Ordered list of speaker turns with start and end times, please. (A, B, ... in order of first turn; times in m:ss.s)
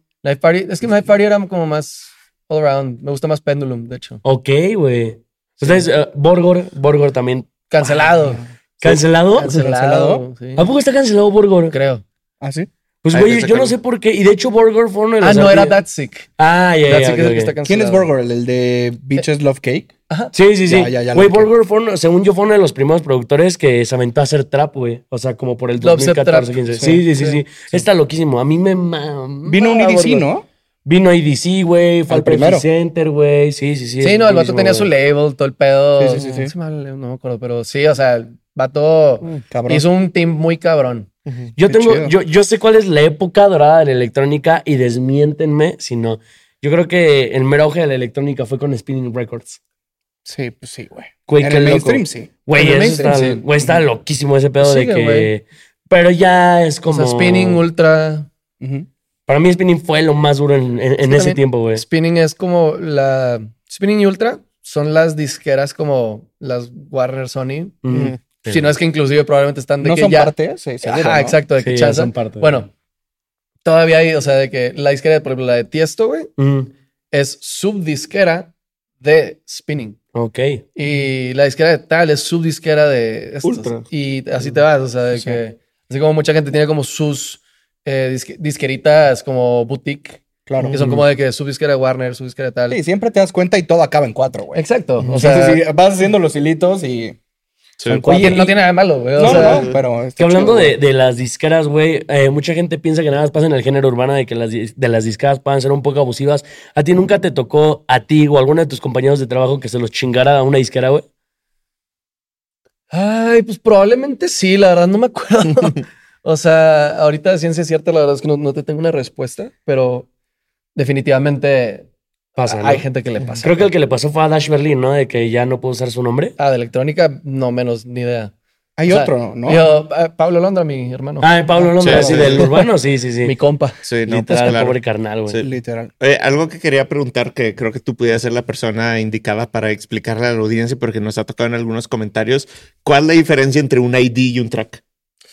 0:00.2-0:04.2 A
0:04.2-0:08.1 B
0:07.7-0:08.4 A
0:08.8-0:09.6 B
0:09.4-0:10.7 A
0:09.4-0:10.3 C
0:10.6-0:11.8 B
0:11.7-0:12.0 A
0:12.4-0:12.7 C
0:13.0-0:15.8 B
0:13.1-0:13.8 D
0:15.2-0:16.3 A
0:16.4-0:17.5 B
0:16.9-0:18.1 A
0:17.6-0:19.9 C
0:20.3-0:30.3 B
0:20.7-0:21.5 C
0:25.8-0:27.4 A
0:29.5-0:30.5 C
0:30.8-0:34.9 B
0:32.1-0:32.7 C
0:34.0-0:41.1 A
0:36.0-0:36.5 C
0:39.5-0:39.8 C
0:41.6-0:49.6 B
0:41.7-0:42.1 C
0:50.2-0:52.4 C
0:51.3-0:57.6 B
0:52.6-0:53.4 A
0:53.0-0:53.8 C
0:54.6-0:55.3 A
0:56.9-0:58.3 A
0:58.6-0:58.9 C
0:59.3-1:01.8 B
1:01.0-1:07.8 A
1:07.8-1:08.7 B
1:07.9-1:08.2 D
1:08.5-1:12.7 A
1:09.8-1:11.4 C
1:11.6-1:12.6 B
1:13.6-1:16.3 A
1:16.4-1:16.7 B
1:17.1-1:20.0 A
1:20.1-1:20.6 B
1:20.8-1:30.2 A
1:23.4-1:23.8 D
1:25.2-1:25.4 C
1:30.5-1:30.8 C
1:30.7-1:32.8 A
1:32.7-1:37.2 C
1:34.5-1:35.6 A
1:37.8-1:38.2 D
1:37.8-1:38.6 C
1:38.1-1:39.7 A
1:39.2-1:40.8 C
1:39.3-1:39.8 D
1:40.2-1:51.0 B
1:52.9-2:00.1 A
2:00.8-2:01.9 A
2:02.4-2:02.8 B
2:02.4-2:03.7 A
2:03.4-2:06.4 B
2:06.4-2:08.3 A
2:08.8-2:09.6 C
2:08.9-2:11.3 A
2:11.2-2:13.4 B
2:11.6-2:12.5 C
2:11.8-2:12.5 D
2:13.2-2:13.8 A
2:13.8-2:15.5 D
2:14.1-2:15.4 B
2:15.4-2:15.9 C
2:16.0-2:24.8 D